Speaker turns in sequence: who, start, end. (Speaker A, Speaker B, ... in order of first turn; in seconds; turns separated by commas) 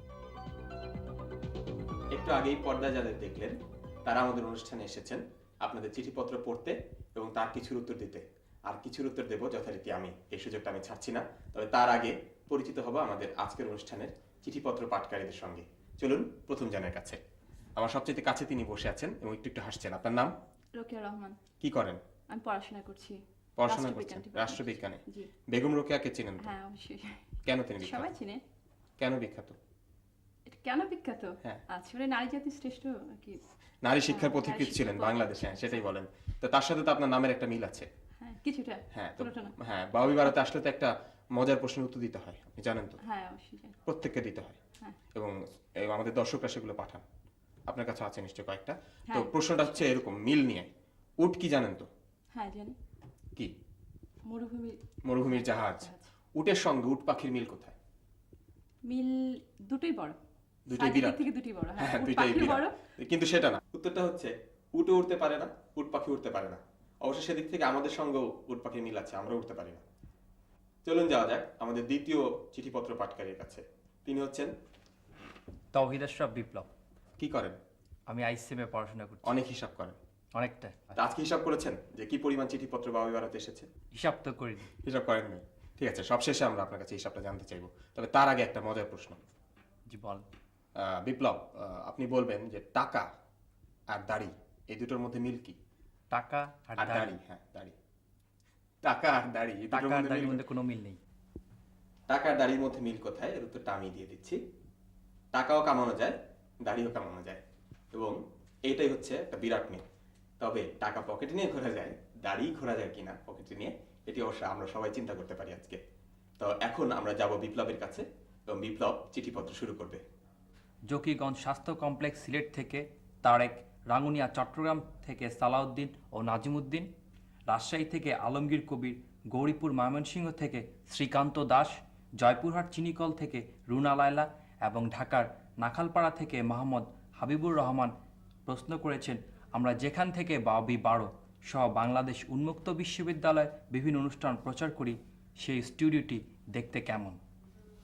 Speaker A: 2.1-17.2, Speaker A: 17.8-20.3, Speaker B: 20.8-21.4, Speaker A: 21.6-22.0, Speaker B: 22.3-25.3, Speaker A: 23.6-26.5, Speaker B: 26.4-27.2, Speaker A: 27.4-28.1, Speaker B: 27.8-28.4, Speaker A: 29.0-29.6, Speaker B: 30.5-33.4, Speaker A: 33.8-37.9, Speaker B: 34.1-35.9, Speaker B: 38.2-39.5, Speaker A: 38.9-43.0, Speaker B: 43.0-43.8, Speaker A: 43.9-44.6, Speaker A: 45.1-47.0, Speaker A: 47.7-51.9, Speaker B: 49.1-49.9, Speaker B: 52.3-52.8, Speaker B: 54.3-56.0, Speaker A: 55.1-57.8, Speaker B: 58.9-60.2, Speaker A: 60.7-61.2, Speaker B: 60.8-62.7, Speaker A: 61.8-69.8, Speaker A: 70.8-74.5, Speaker C: 75.7-76.7, Speaker A: 77.2-77.6, Speaker C: 78.1-79.3, Speaker A: 79.2-80.0, Speaker C: 80.3-81.0, Speaker A: 81.0-83.7, Speaker C: 83.9-84.7, Speaker A: 84.8-89.2, Speaker C: 89.9-90.2, Speaker A: 90.8-93.1, Speaker A: 93.9-95.6, Speaker C: 96.1-97.1, Speaker A: 96.8-97.7, Speaker A: 98.8-100.4, Speaker C: 99.7-101.0, Speaker A: 102.1-104.4, Speaker A: 105.3-107.4, Speaker A: 107.9-109.8, Speaker A: 110.4-115.8, Speaker A: 116.4-120.0, Speaker C: 120.9-126.9, Speaker C: 127.5-137.9, Speaker C: 138.5-147.2